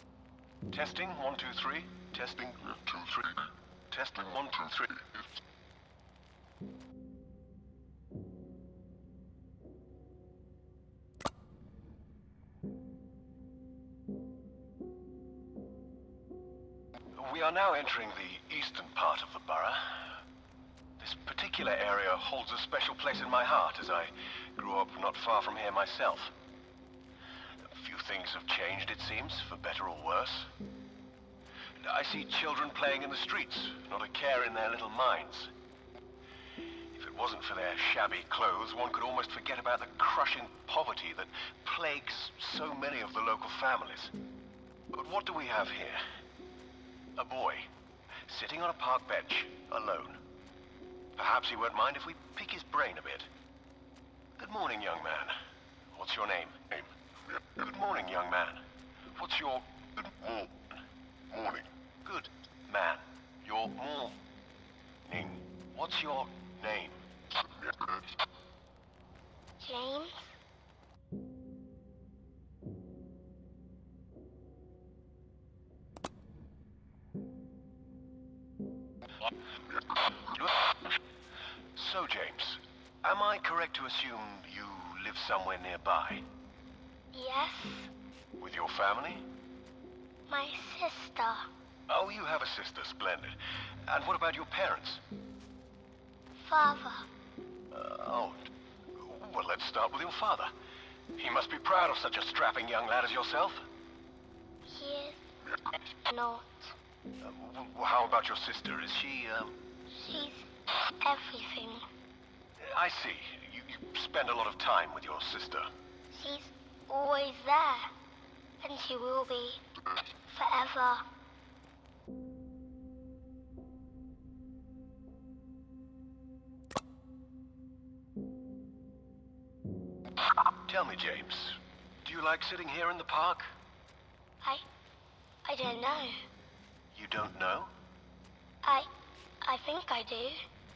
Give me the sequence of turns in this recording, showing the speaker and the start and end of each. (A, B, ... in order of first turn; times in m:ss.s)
0:00.7-0:05.1 A
0:17.2-0:19.9 A
0:21.0-0:26.3 A
0:27.6-0:30.5 A
0:31.8-0:35.5 A
0:36.9-0:44.1 A
0:44.9-0:46.0 A
0:47.2-0:47.7 A
0:48.3-0:50.2 A
0:51.2-0:53.3 A
0:54.4-0:55.3 A
0:55.9-0:58.6 A
0:59.1-1:00.7 A
1:01.3-1:04.2 A
1:05.0-1:07.0 A
1:09.6-1:10.3 B
1:19.9-1:20.9 A
1:21.7-1:26.2 A
1:27.1-1:27.9 B
1:28.4-1:29.3 A
1:30.3-1:31.4 B
1:31.9-1:33.4 A
1:33.9-1:35.0 A
1:36.4-1:37.0 B
1:37.7-1:40.5 A
1:41.2-1:43.6 A
1:44.6-1:45.2 B
1:46.0-1:46.7 B
1:47.2-1:49.5 A
1:49.9-1:51.8 B
1:52.6-1:55.7 A
1:56.1-1:57.9 B
1:58.6-1:59.6 B
2:00.3-2:01.0 B
2:10.6-2:13.5 A
2:15.4-2:16.1 B
2:16.9-2:17.7 A
2:19.4-2:20.4 B